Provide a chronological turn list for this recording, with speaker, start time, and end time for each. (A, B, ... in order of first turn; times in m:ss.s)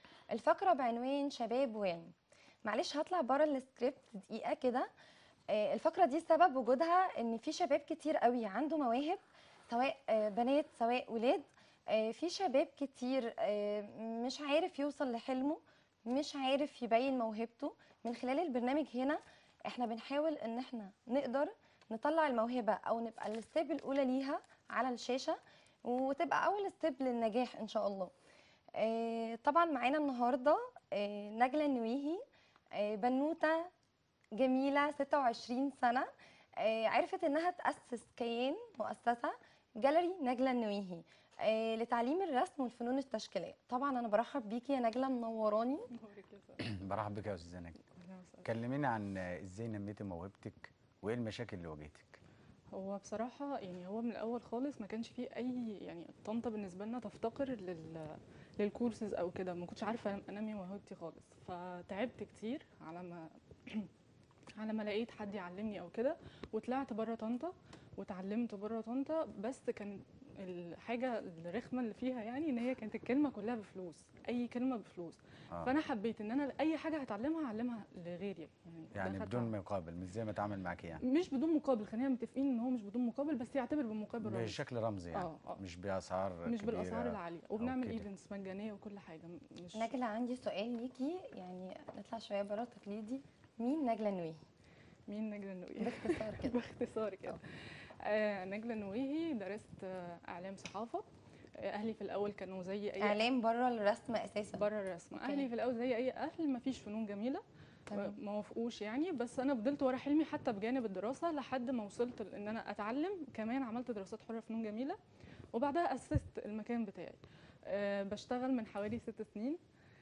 0:00.3-0:02.1 A
0:02.6-0:04.9 A
0:05.5-0:28.1 A
0:28.8-0:32.2 A
0:32.8-0:33.7 A
0:34.4-0:45.9 A
0:45.9-0:46.6 B
0:46.6-0:47.8 C
0:48.0-0:48.5 B
0:48.4-0:52.2 C
0:52.7-1:03.9 B
1:04.6-1:19.5 B
1:18.9-1:21.0 C
1:21.0-1:24.6 B
1:24.2-1:28.0 C
1:25.1-1:25.6 B
1:26.4-1:29.9 B
1:29.8-1:34.4 A
1:35.1-1:41.1 B
1:35.8-1:36.6 A
1:41.6-1:43.2 B
1:43.0-1:44.6 A
1:44.6-1:55.0 B
1:45.2-1:45.5 A
1:47.9-1:48.1 A
1:55.5-1:59.6 B